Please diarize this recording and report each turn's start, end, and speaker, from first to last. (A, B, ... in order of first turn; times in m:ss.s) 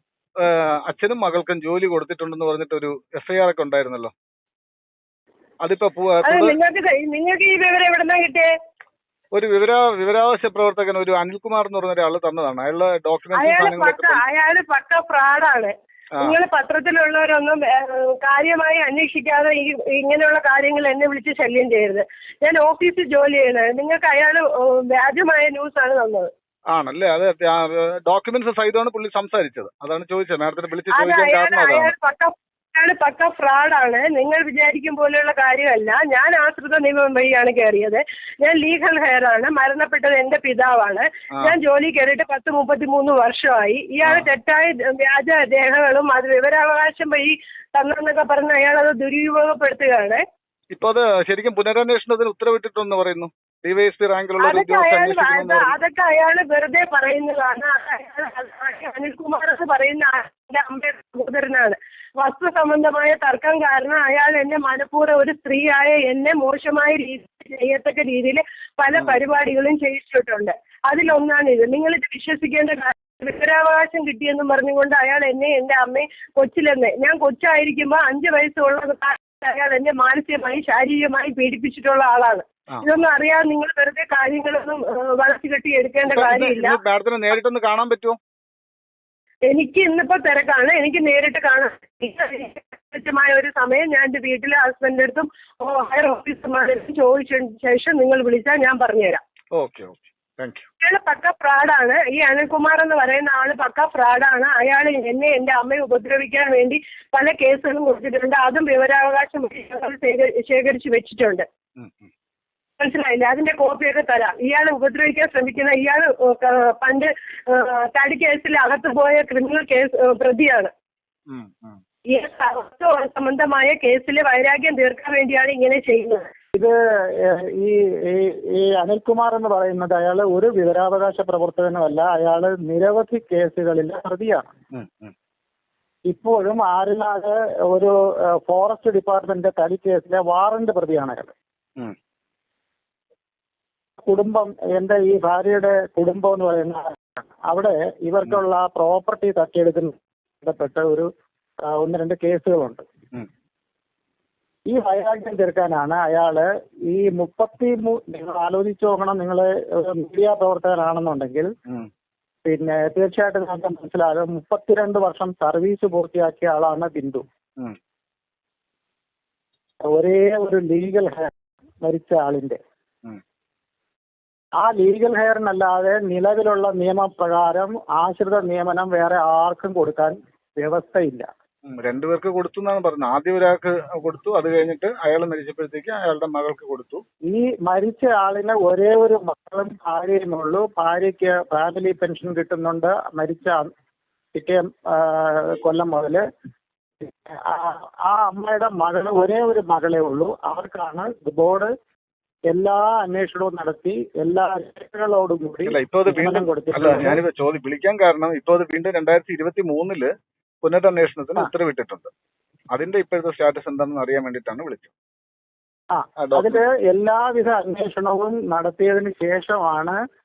0:00.4-0:04.1 A
0:05.6-0:06.5 A
0:06.2-0:08.5 B
0:09.3-0:14.2 A
0:13.3-0:26.3 B
0:26.7-0:31.9 A
0:30.9-0:50.2 B
0:44.0-0:44.3 A
0:50.7-0:55.7 A
0:54.4-1:26.8 B
1:26.1-1:28.2 A
1:29.4-1:39.2 B
1:39.5-1:40.6 A
1:40.8-1:51.5 B
1:51.8-1:52.1 A
1:52.8-2:00.7 B
2:01.3-2:01.8 A
2:02.1-2:06.3 B
2:06.5-2:14.5 C
2:14.7-2:15.1 A
2:16.1-2:21.3 C
2:24.0-2:26.9 C
2:27.4-2:31.1 C
2:31.6-2:32.8 C
2:34.7-2:41.5 C
2:42.4-2:47.2 C
2:49.8-2:52.6 C
2:54.6-3:01.3 C
3:01.7-3:07.0 A
3:07.3-3:13.7 C
3:14.3-3:16.2 C
3:17.0-3:21.7 C
3:22.5-3:27.2 C
3:25.6-3:30.1 A
3:30.6-3:32.1 A
3:32.7-3:34.9 A
3:35.9-3:40.0 C
3:36.2-3:36.6 A